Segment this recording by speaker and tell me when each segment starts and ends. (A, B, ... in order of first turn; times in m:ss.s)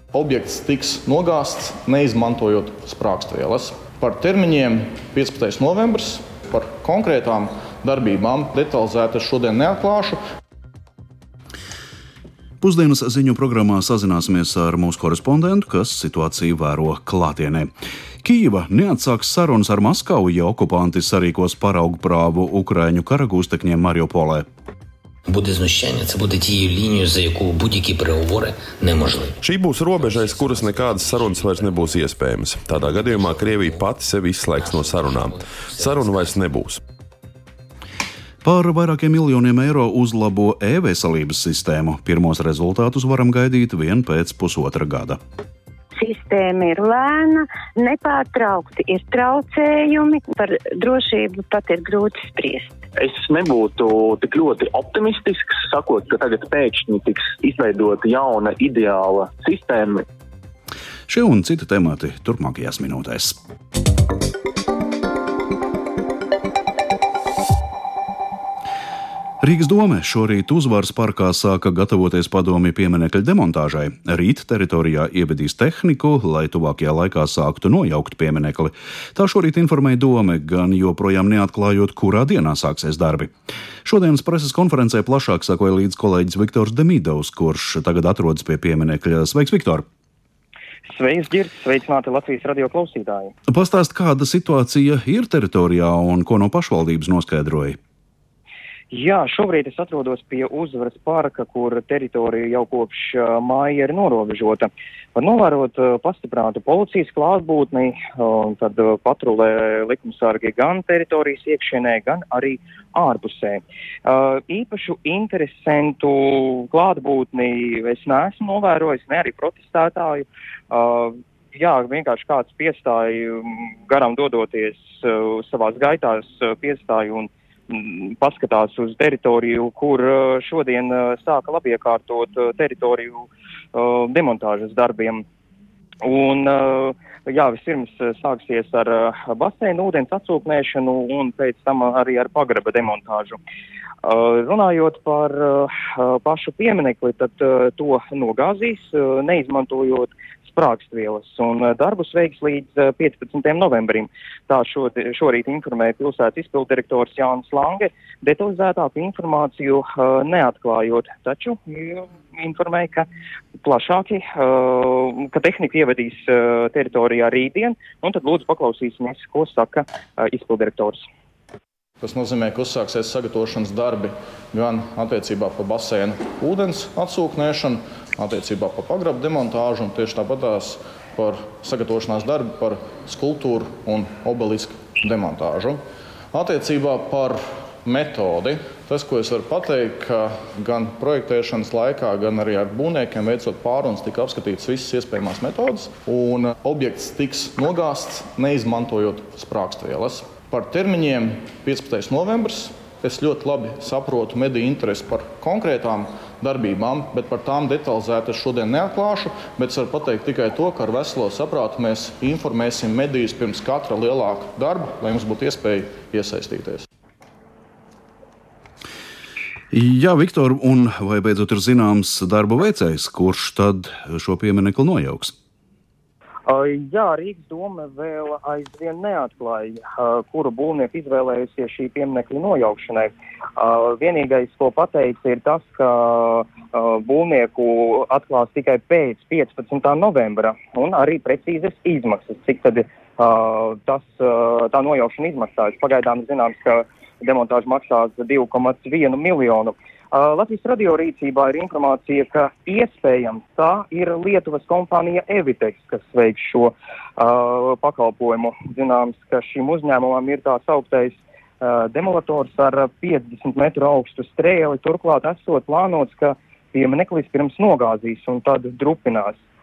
0:00.1-0:10.2 A
0:12.6-0:17.7 B
0:18.2-0:24.4 B
0:25.3-0:32.1 C
0:29.4-0:36.8 D
0:32.6-0:33.9 C
0:34.5-0:36.4 C
0:38.4-0:45.2 B
0:46.0-0:52.8 E
0:53.0-1:00.0 F
1:01.1-1:03.4 B
1:09.4-1:23.3 B
1:23.8-1:29.8 B
1:30.9-1:33.3 G
1:33.5-1:37.8 B
1:38.9-2:15.2 G
2:16.0-2:23.4 G
2:24.0-2:43.1 G
2:43.6-2:51.0 G
2:52.0-3:05.8 A
3:06.3-3:36.9 A
3:39.7-3:45.3 B
3:46.5-4:29.4 G